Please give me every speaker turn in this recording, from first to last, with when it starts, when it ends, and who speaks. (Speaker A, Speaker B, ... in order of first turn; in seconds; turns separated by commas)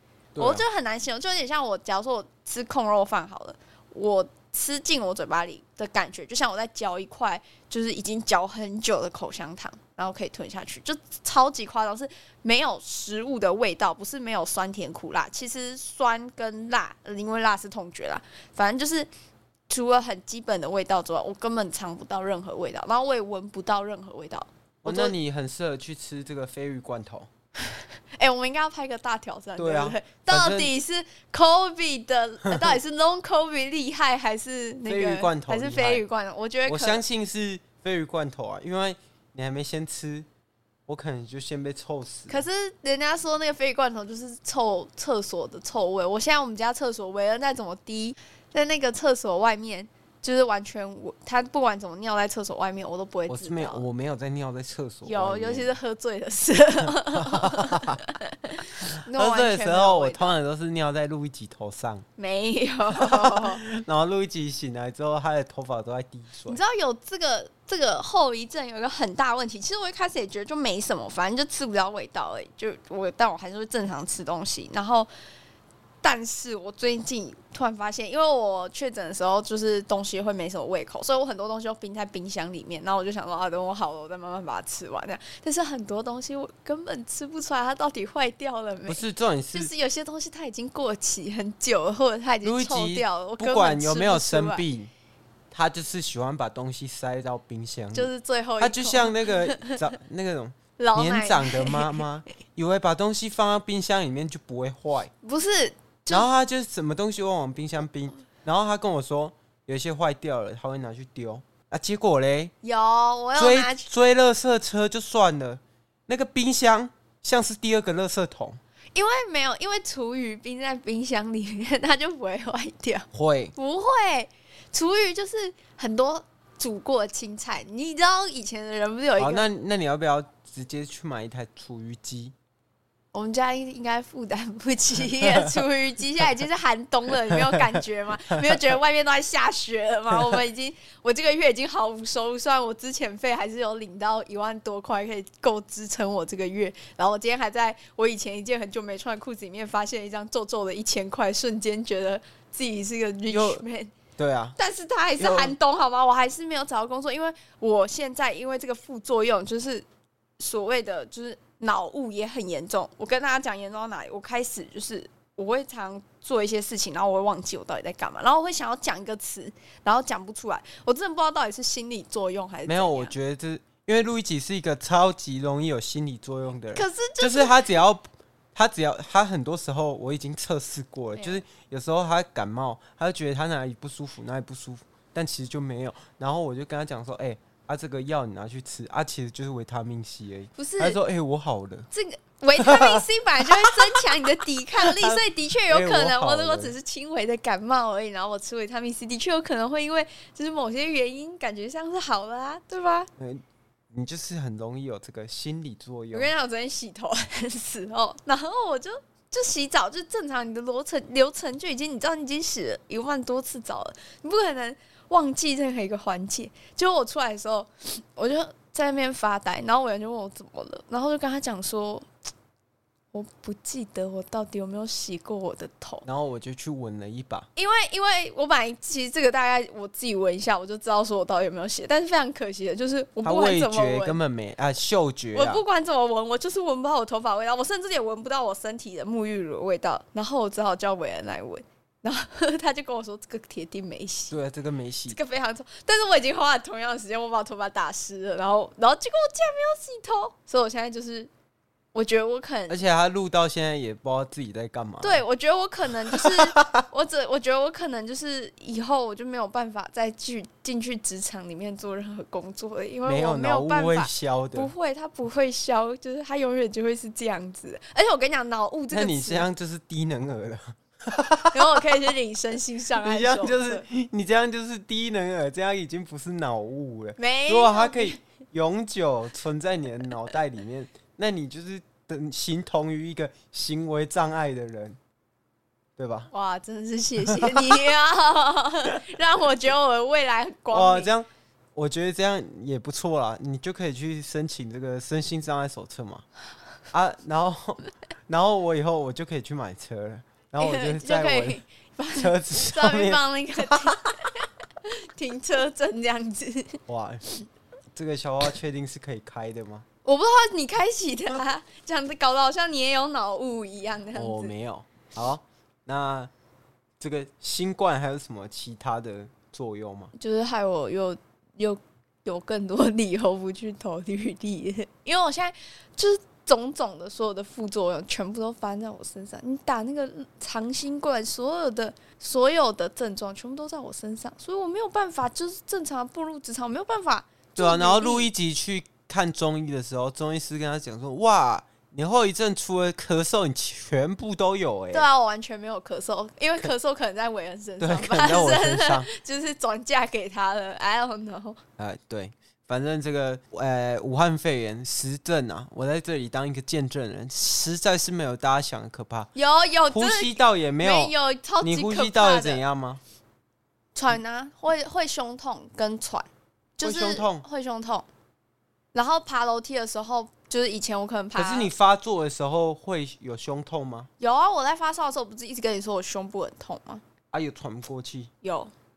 Speaker A: 0.3-0.6, Speaker B: 0.4-19.1, Speaker B: 19.7-25.1, Speaker A: 24.8-27.3, Speaker B: 27.7-37.0, Speaker A: 29.6-30.7, Speaker A: 34.9-36.0, Speaker A: 36.6-40.3, Speaker A: 40.9-42.4, Speaker B: 42.3-53.8, Speaker A: 53.3-55.7, Speaker B: 55.0-60.4, Speaker A: 57.0-58.0, Speaker A: 58.8-62.0, Speaker B: 62.2-63.6, Speaker A: 63.0-66.6, Speaker B: 66.5-75.1, Speaker B: 76.0-89.0, Speaker A: 88.9-89.7, Speaker B: 89.5-94.6, Speaker A: 92.4-94.9, Speaker A: 95.5-105.1, Speaker B: 97.9-99.8, Speaker B: 100.8-102.0, Speaker B: 105.2-106.3, Speaker A: 106.1-112.5, Speaker B: 112.6-113.9, Speaker A: 113.3-118.6, Speaker B: 118.9-129.4, Speaker A: 123.1-123.5, Speaker A: 129.2-132.3, Speaker B: 133.1-153.9, Speaker A: 153.3-153.6, Speaker A: 154.2-154.6, Speaker B: 154.6-159.8, Speaker A: 155.2-155.5, Speaker B: 160.4-173.1, Speaker A: 172.7-191.9, Speaker B: 176.7-177.5, Speaker B: 181.1-181.4, Speaker B: 190.6-191.0, Speaker B: 191.9-203.1, Speaker A: 192.6-193.6, Speaker A: 194.6-196.7, Speaker A: 203.2-206.3, Speaker B: 206.1-222.1, Speaker B: 223.1-226.1, Speaker A: 226.0-227.5, Speaker B: 227.6-234.2, Speaker A: 233.2-235.6, Speaker B: 235.3-244.3, Speaker A: 244.3-245.2, Speaker B: 245.1-251.3, Speaker B: 251.9-252.8, Speaker A: 252.7-255.2, Speaker B: 255.0-269.5, Speaker A: 256.1-256.8, Speaker A: 263.1-264.7, Speaker A: 268.9-271.9, Speaker B: 271.5-273.8, Speaker A: 273.0-285.0, Speaker B: 277.2-278.2, Speaker A: 286.0-286.3, Speaker B: 286.3-291.1, Speaker A: 287.2-287.9, Speaker A: 290.7-296.2, Speaker A: 296.9-301.6, Speaker B: 300.6-307.3, Speaker A: 302.1-303.9, Speaker A: 306.9-307.2, Speaker A: 307.9-309.9, Speaker B: 310.0-314.5, Speaker A: 314.1-316.3, Speaker A: 317.0-320.1, Speaker B: 320.1-338.3, Speaker A: 337.6-345.1, Speaker B: 344.9-351.6, Speaker A: 347.8-349.1, Speaker A: 351.8-359.3, Speaker B: 359.3-362.6, Speaker A: 359.9-363.0, Speaker B: 363.9-368.1, Speaker A: 366.8-367.4, Speaker B: 368.9-371.7, Speaker A: 371.3-374.1, Speaker B: 374.2-377.0, Speaker A: 377.3-378.3, Speaker B: 378.4-378.7